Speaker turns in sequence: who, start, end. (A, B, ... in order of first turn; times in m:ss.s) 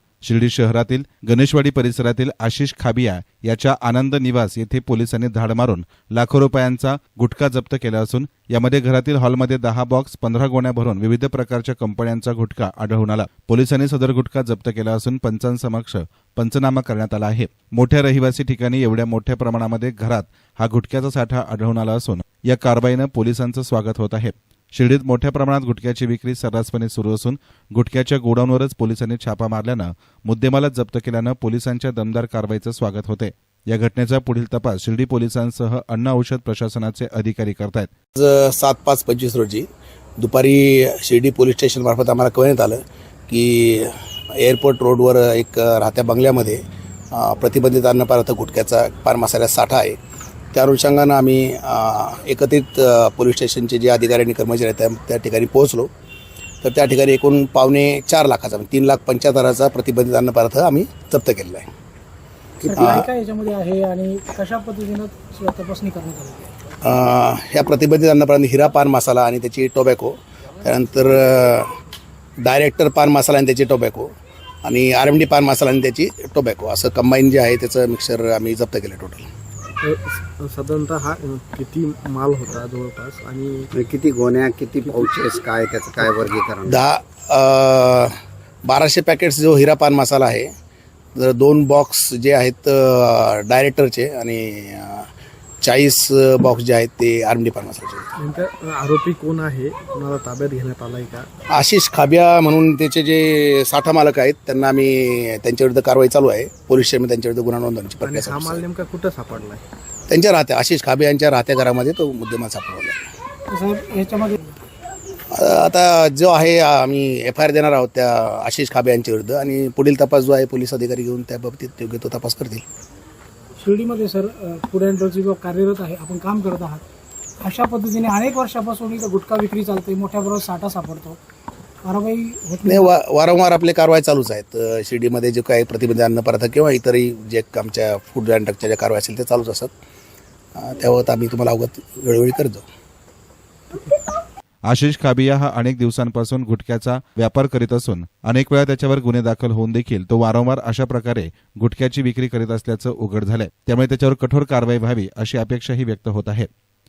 0:00.2-0:37.9 A
0:38.2-0:39.6 B
0:40.2-0:46.6 B
0:47.1-0:50.0 B
0:50.5-0:55.9 B
0:56.6-1:01.7 B
1:02.6-1:06.5 C
1:02.8-1:03.1 B
1:06.8-1:11.7 B
1:12.4-1:14.1 B
1:14.6-1:19.3 B
1:19.8-1:23.7 D
1:23.7-1:26.8 E
1:26.6-1:30.5 B
1:31.1-1:35.1 B
1:35.6-1:38.1 B
1:38.2-1:41.3 D
1:41.5-1:48.6 B
1:48.0-1:49.6 D
1:50.1-1:53.0 B
1:53.5-1:54.6 C
1:55.3-2:02.6 B
2:03.6-2:06.8 C
2:07.4-2:11.2 C
2:11.8-2:12.9 C
2:12.6-2:19.7 B
2:20.6-2:22.6 B
2:24.6-2:36.5 A